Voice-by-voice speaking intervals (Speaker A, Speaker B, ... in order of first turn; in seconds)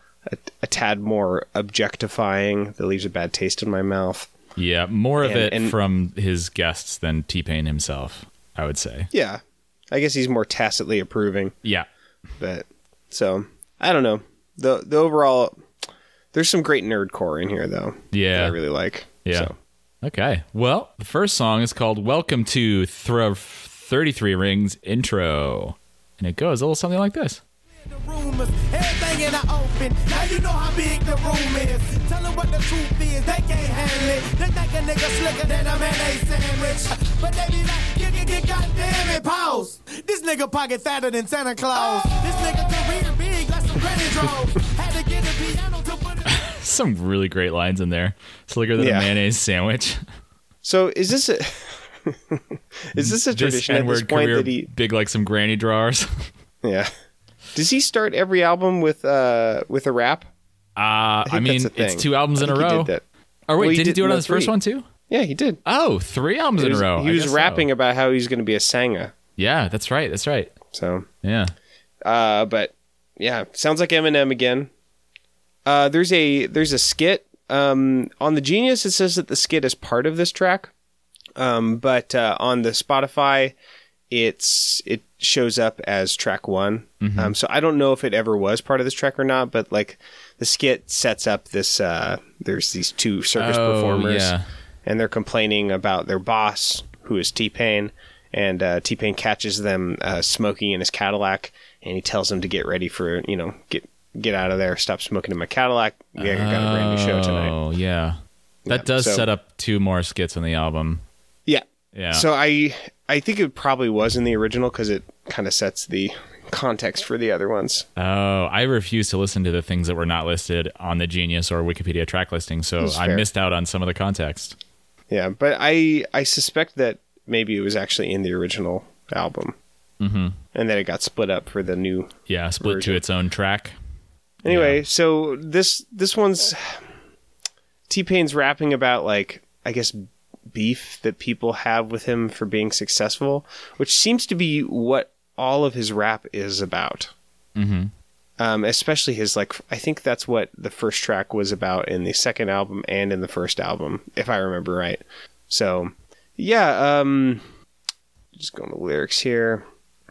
Speaker A: 0.3-4.3, 5.2-5.8, 9.1-9.4, 9.9-11.5, 12.4-15.6, 16.3-19.6, 48.8-49.1, 50.6-54.7, 56.6-56.9, 57.5-60.3, 61.3-63.0, 63.6-64.5, 65.1-65.6, 66.6-69.1, 70.7-71.1, 72.0-74.7, 75.7-80.7, 81.4-83.5, 84.1-94.3, 94.8-107.5, 108.7-109.3, 111.5-117.9, 122.8-123.3, 125.1-129.6, 130.5-133.0, 134.4-136.8, 137.9-140.0, 140.5-147.1, 148.4-157.4, 158.4-159.7
Speaker B: 4.6-9.1, 18.1-18.6, 19.2-19.5, 20.0-27.4, 46.3-50.0, 53.0-56.3, 60.8-62.9, 63.5-64.9, 65.7-67.7, 69.4-70.5, 71.2-71.5, 87.0-87.3, 93.4-94.5, 106.2-111.0, 111.9-112.3, 118.0-124.6, 130.0-130.4, 132.3-133.7, 134.5-134.8, 147.6-147.9
Speaker C: 27.9-46.3